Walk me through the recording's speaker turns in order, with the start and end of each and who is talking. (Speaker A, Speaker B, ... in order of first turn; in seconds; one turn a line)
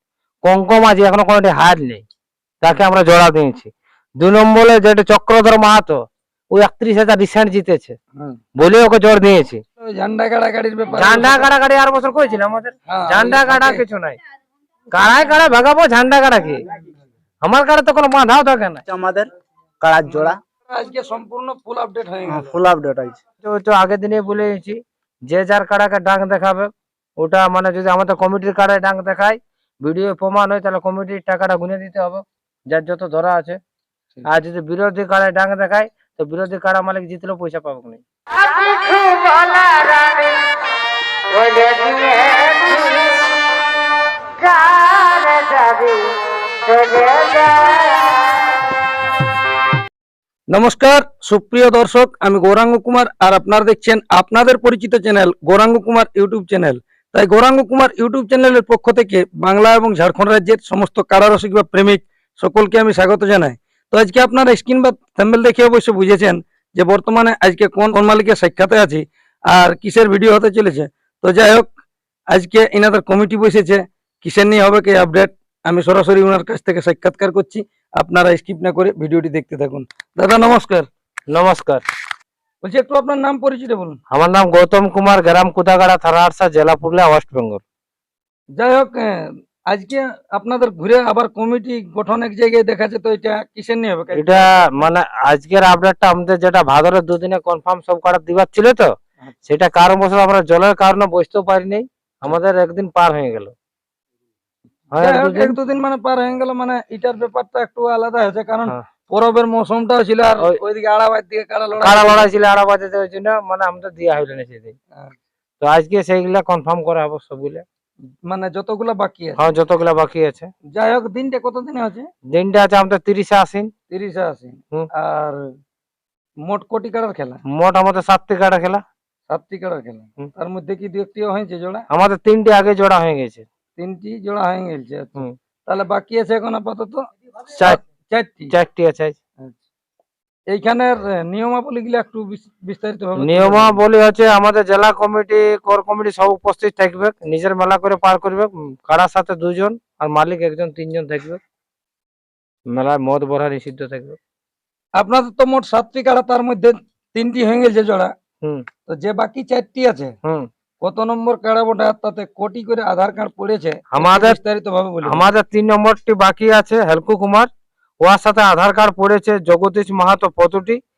Speaker A: 0.4-2.0
Speaker A: 2.6-8.0
Speaker A: 8.6-9.6
Speaker B: 9.8-11.5
Speaker A: 10.9-14.2
Speaker B: 12.9-13.8
Speaker A: 14.9-16.6
Speaker A: 17.4-18.8
Speaker C: 18.9-19.3
Speaker C: 19.8-20.4
Speaker B: 20.1-22.5
Speaker C: 22.3-23.2
Speaker A: 23.4-33.6
Speaker A: 34.2-40.4
Speaker A: 41.3-43.3
Speaker A: 44.4-48.2
Speaker B: 50.5-71.7
Speaker B: 72.3-80.9
Speaker A: 81.3-81.8
Speaker B: 82.6-84.0
Speaker A: 84.1-87.6
Speaker B: 88.6-94.8
Speaker A: 94.1-98.9
Speaker A: 99.5-103.5
Speaker A: 104.9-105.5
Speaker B: 105.0-112.3
Speaker A: 111.8-114.8
Speaker A: 115.6-117.6
Speaker B: 118.3-119.5
Speaker A: 119.4-120.5
Speaker B: 120.7-122.1
Speaker A: 122.3-123.7
Speaker B: 123.9-125.4
Speaker B: 126.4-127.4
Speaker A: 127.5-128.8
Speaker B: 129.3-131.8
Speaker A: 131.9-133.5
Speaker B: 133.8-138.5
Speaker A: 138.5-139.2
Speaker B: 140.5-143.8
Speaker A: 143.2-151.4
Speaker A: 152.7-154.2
Speaker B: 155.0-158.1
Speaker B: 158.9-160.2
Speaker B: 160.8-165.3
Speaker A: 163.9-164.4
Speaker A: 165.1-167.5
Speaker A: 168.0-170.8